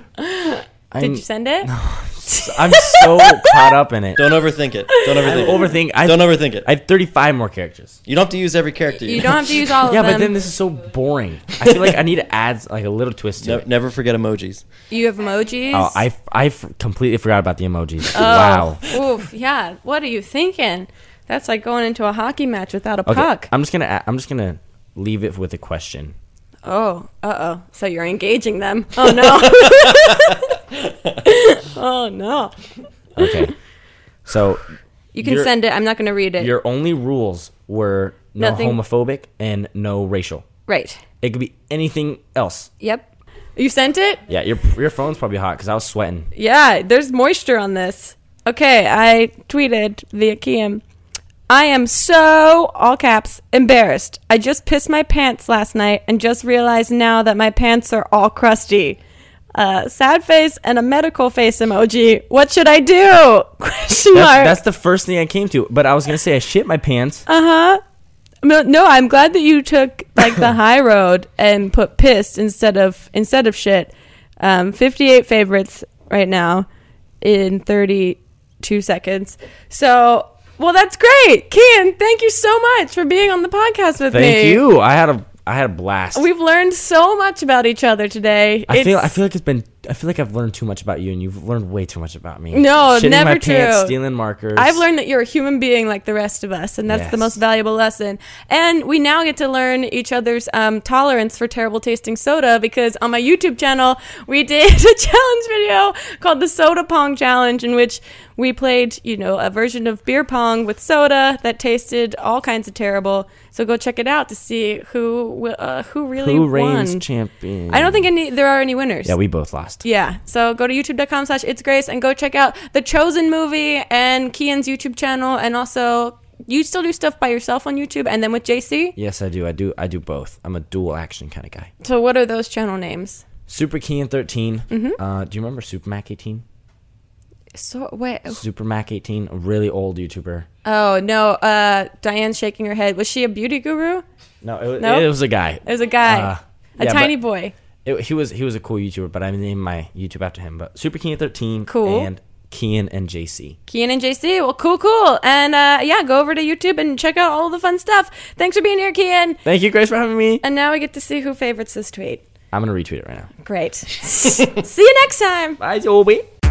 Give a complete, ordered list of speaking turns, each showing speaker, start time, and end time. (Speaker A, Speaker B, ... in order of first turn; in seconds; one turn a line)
Speaker A: 0.2-1.7
Speaker B: 0.9-4.5
Speaker A: 2.2-3.7
Speaker C: 4.2-6.7
Speaker A: 4.9-5.8
Speaker B: 5.2-8.0
Speaker C: 8.1-9.7
Speaker A: 9.0-10.3
Speaker B: 9.8-13.7
Speaker C: 13.4-14.6
Speaker A: 14.9-16.0
Speaker B: 15.7-18.9
Speaker A: 18.1-23.5
Speaker B: 23.1-26.1
Speaker A: 26.6-30.5
Speaker A: 31.2-33.3
Speaker B: 33.2-33.5
Speaker B: 34.2-34.7
Speaker A: 35.1-36.5
Speaker B: 35.2-35.5
Speaker B: 36.4-40.5
Speaker A: 38.4-38.8
Speaker A: 40.7-41.0
Speaker B: 41.2-42.7
Speaker A: 42.8-44.2
Speaker B: 44.3-46.3
Speaker A: 46.3-50.8
Speaker A: 51.5-59.0
Speaker A: 59.5-64.6
Speaker B: 64.1-67.2
Speaker A: 67.3-67.8
Speaker A: 68.4-76.7
Speaker A: 77.2-84.6
Speaker B: 84.1-86.3
Speaker A: 86.1-89.1
Speaker B: 88.7-94.8
Speaker A: 92.5-94.0
Speaker A: 94.5-117.0
Speaker B: 96.9-97.4
Speaker B: 116.2-118.1
Speaker A: 117.7-119.1
Speaker B: 119.0-119.8
Speaker A: 119.8-128.9
Speaker B: 128.9-131.7
Speaker A: 131.8-133.2
Speaker B: 133.5-136.4
Speaker A: 134.7-135.0
Speaker A: 137.5-138.4
Speaker B: 138.3-140.5
Speaker A: 140.6-144.0
Speaker B: 144.4-147.1
Speaker A: 144.8-145.1
Speaker A: 145.6-147.5
Speaker B: 147.8-153.6
Speaker A: 151.7-152.1
Speaker A: 153.7-159.4
Speaker B: 159.4-160.4
Speaker A: 160.4-162.2
Speaker B: 162.5-163.3
Speaker A: 163.4-165.6
Speaker B: 165.6-166.2